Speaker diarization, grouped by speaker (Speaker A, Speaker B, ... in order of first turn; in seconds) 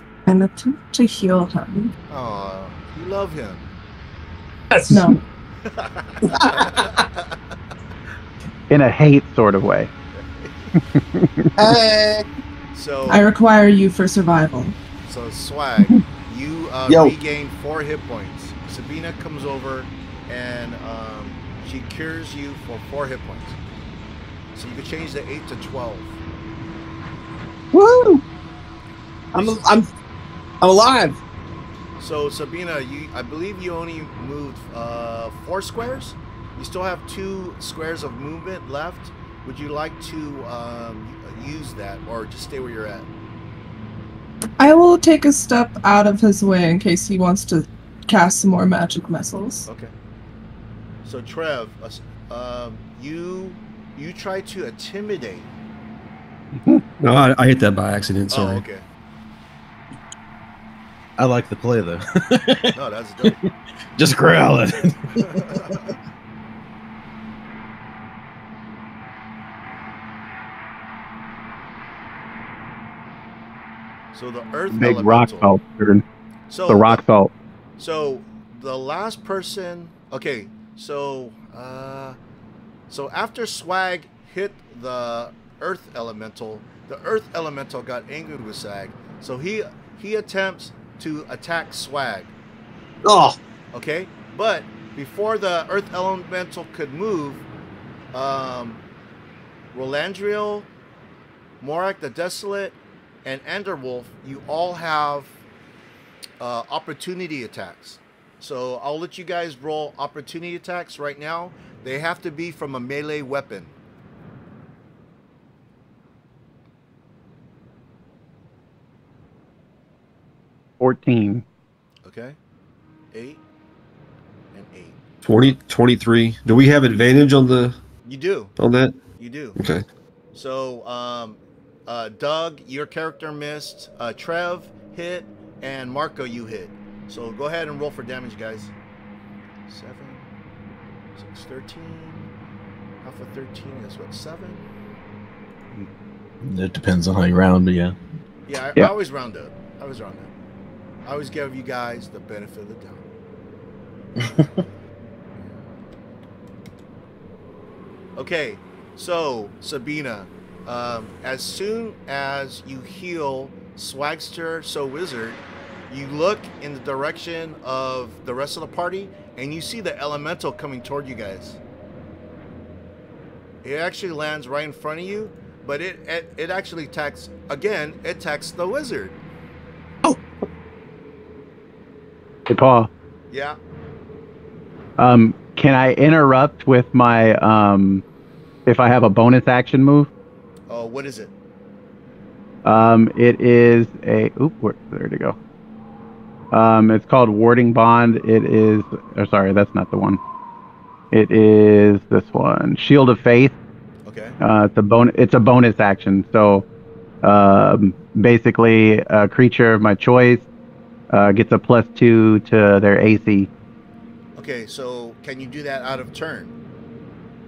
Speaker A: 0.2-1.9, 4.9-5.2, 13.1-14.7, 44.6-49.7
Speaker B: 2.1-3.7, 5.6-7.3, 10.1-10.7, 12.7-13.2, 15.1-23.6, 24.5-26.1, 32.0-43.1, 49.7-49.9, 51.0-55.5, 58.3-58.8, 62.7-63.4, 65.2-65.9, 74.1-75.5, 76.5-77.0, 77.8-82.2, 82.9-92.3, 93.7-97.4, 98.1-98.8, 99.7-100.7, 101.6-105.3, 106.4-113.7, 122.0-122.4, 123.1-123.4, 124.5-125.0, 128.1-128.5, 129.2-129.6, 130.3-138.7, 139.7-140.3, 141.2-142.3, 143.0-144.7, 148.5-150.3, 151.1-153.0, 155.3-155.7, 158.2-171.6, 173.6-179.2, 183.3-183.6, 190.7-191.3, 204.0-204.4, 214.3-216.5
Speaker C: 4.7-5.1, 6.3-6.9, 11.6-12.2, 16.9-17.1, 27.7-28.2, 29.3-29.9, 30.6-31.2, 93.0-93.4
Speaker D: 8.7-9.9, 10.9-11.5, 74.7-76.0, 76.7-77.3, 120.8-121.4, 182.5-182.9, 185.0-188.0, 188.7-190.1, 192.6-195.4, 196.5-200.2, 201.1-203.5, 204.4-206.7, 207.2-210.4, 211.1-213.5
Speaker E: 57.0-58.6, 125.2-127.8, 128.6-129.0, 129.6-129.8
Speaker F: 61.2-65.8, 146.4-147.9, 154.2-154.5